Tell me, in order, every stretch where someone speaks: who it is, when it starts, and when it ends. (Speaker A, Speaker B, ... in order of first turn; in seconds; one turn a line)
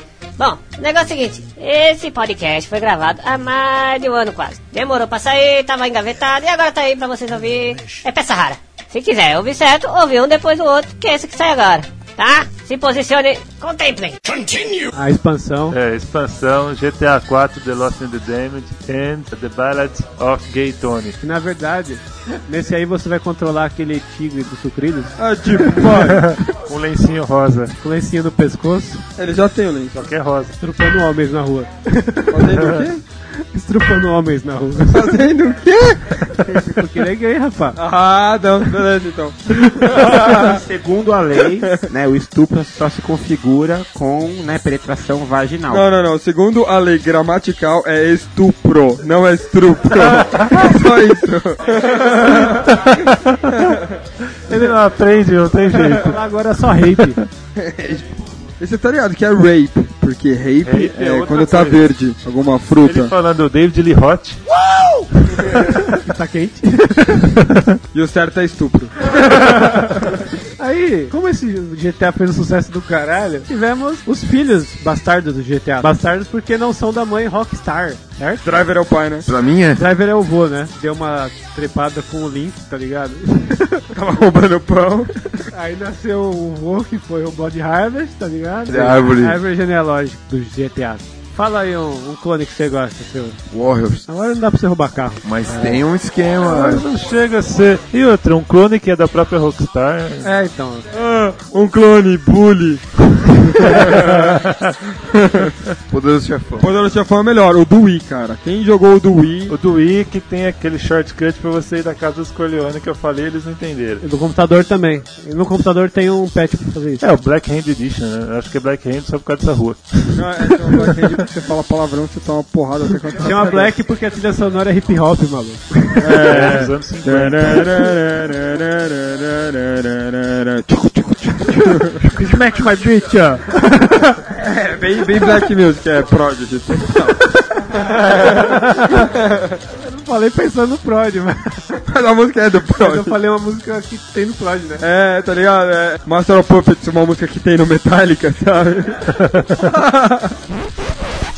Speaker A: 0.4-14.2
Speaker B: 14.9-15.8
Speaker C: 15.7-21.2
Speaker B: 21.2-25.2
Speaker D: 25.2-26.4
Speaker C: 25.9-27.8
Speaker B: 27.8-29.0
Speaker D: 29.2-30.0
Speaker C: 29.9-30.6
Speaker B: 30.6-32.4
Speaker D: 32.3-33.0
Speaker B: 33.4-35.1
Speaker D: 34.9-36.8
Speaker B: 36.6-37.8
Speaker D: 37.8-40.6
Speaker E: 40.0-45.9
Speaker D: 45.7-52.9
Speaker C: 50.0-50.5
Speaker C: 54.5-56.2
Speaker B: 55.8-57.2
Speaker D: 57.6-63.1
Speaker C: 60.6-61.9
Speaker C: 62.8-64.4
Speaker C: 65.2-66.0
Speaker B: 66.0-67.4
Speaker C: 67.4-67.8
Speaker D: 67.9-69.8
Speaker B: 70.6-78.5
Speaker D: 78.4-79.3
Speaker F: 79.3-79.8
Speaker B: 79.8-83.9
Speaker D: 83.9-85.1
Speaker B: 85.5-93.4
Speaker F: 88.7-89.4
Speaker F: 93.5-94.0
Speaker B: 94.1-95.8
Speaker F: 95.2-96.9
Speaker C: 96.4-100.3
Speaker B: 100.2-100.9
Speaker D: 100.9-104.4
Speaker C: 104.0-104.7
Speaker D: 105.1-105.5
Speaker F: 105.9-106.7
Speaker D: 106.6-109.5
Speaker C: 109.5-114.0
Speaker B: 114.0-117.0
Speaker C: 117.0-120.2
Speaker D: 120.2-123.7
Speaker B: 123.2-126.3
Speaker D: 126.0-132.1
Speaker C: 126.1-127.9
Speaker B: 132.1-134.1
Speaker D: 134.4-137.3
Speaker D: 137.8-139.6
Speaker B: 139.8-141.7
Speaker D: 141.9-143.2
Speaker B: 142.8-144.8
Speaker D: 144.8-149.0
Speaker D: 149.6-150.4